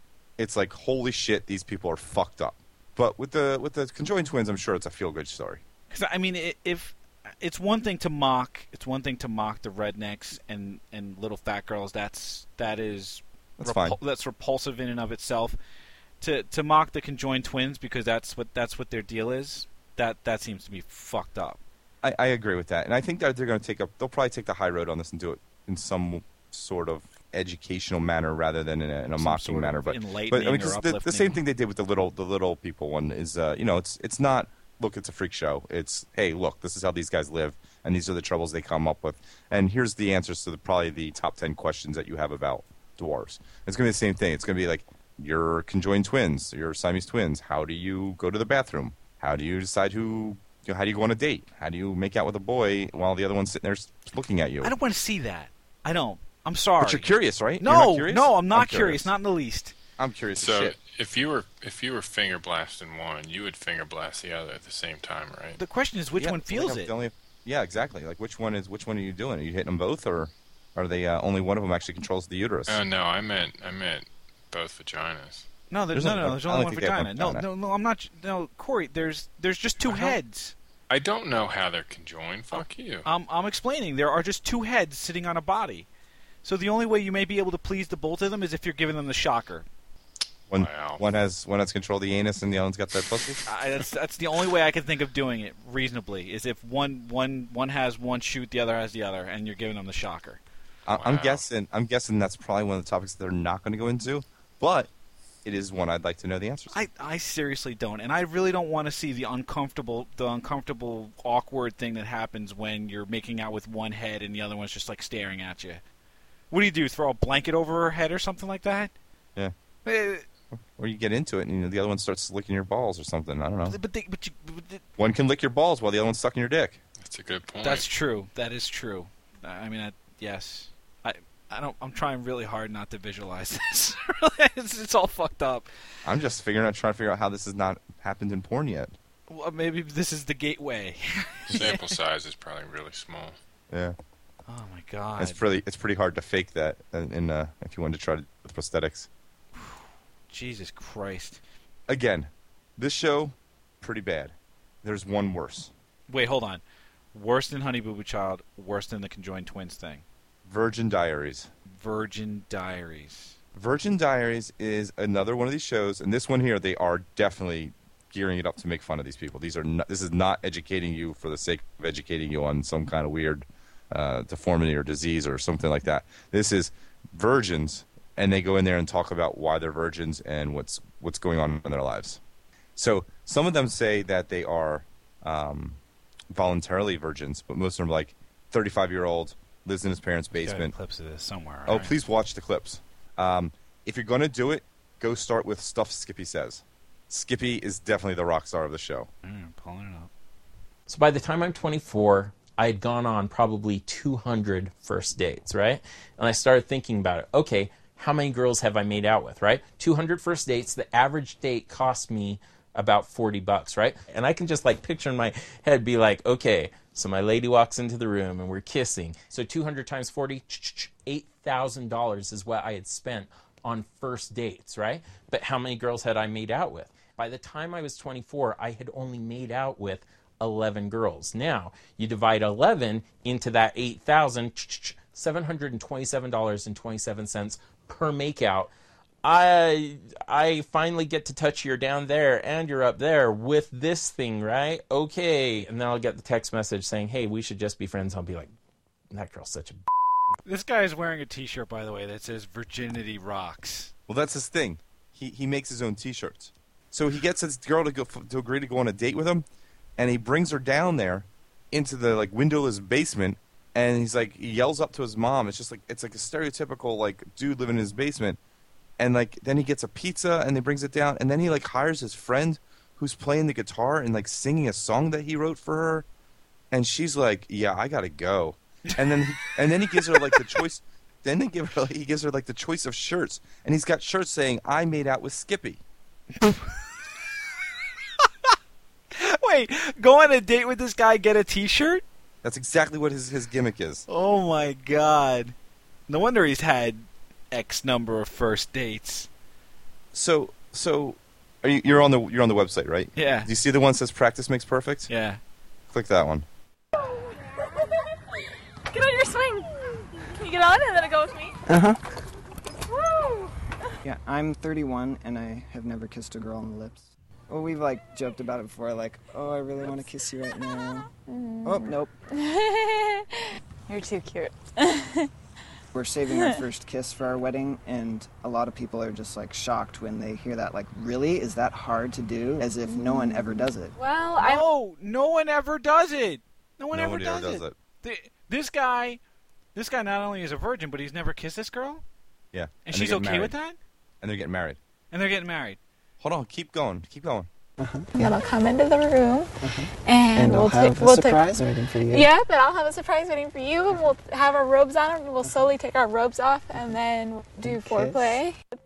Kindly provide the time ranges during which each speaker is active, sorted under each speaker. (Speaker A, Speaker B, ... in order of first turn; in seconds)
Speaker A: 0.4-5.6, 13.6-14.0, 22.0-54.7, 56.8-59.1, 60.0-60.8, 66.2-72.8, 75.9-77.5, 79.9-80.1, 90.5-93.4, 100.9-104.9, 105.5-106.8, 120.8-123.8, 125.0-126.8, 136.1-138.9, 143.7-144.0, 145.2-149.1, 151.9-155.7, 160.4-161.5, 163.5-182.2, 182.8-185.8, 186.3-190.7, 191.7-199.1, 254.1-259.4, 260.0-268.4, 269.0-276.1, 276.7-285.8, 292.4-294.1, 300.1-305.1, 305.9-306.5, 336.9-337.8, 342.5-343.6, 344.2-344.8, 346.2-347.5
Speaker B: 5.9-15.6, 16.2-21.6, 29.2-31.4, 54.6-59.8, 65.6-66.9, 75.7-80.5, 82.5-85.9, 86.4-89.7, 93.5-100.4, 106.7-115.8, 116.5-118.9, 119.8-120.2, 123.7-124.8, 127.6-135.7, 139.3-141.9, 144.5-145.4, 149.6-151.4, 156.1-160.1, 161.7-163.4, 190.3-192.0, 199.2-200.1, 250.4-253.9, 279.9-280.5, 286.4-286.8, 288.2-288.5, 289.1-292.0, 294.1-295.6, 296.1-299.3, 303.2-303.5, 305.1-305.4, 334.4-339.2, 339.8-342.0, 342.9-343.8, 345.1-345.8
Speaker C: 60.4-65.6, 72.7-75.5, 80.9-83.1, 90.5-91.0, 100.9-101.4, 127.0-127.9, 141.5-143.4
Speaker D: 200.9-238.7, 239.2-248.5, 249.1-249.8
Speaker E: 308.9-309.7, 310.2-311.6, 313.0-313.5, 321.2-323.3, 323.9-325.3, 326.3-326.6, 332.9-334.7, 348.1-351.5, 352.1-358.6
Speaker F: 311.7-312.0, 314.0-321.1, 321.7-322.1, 325.9-333.9, 347.8-348.3, 349.6-352.3, 357.6-358.4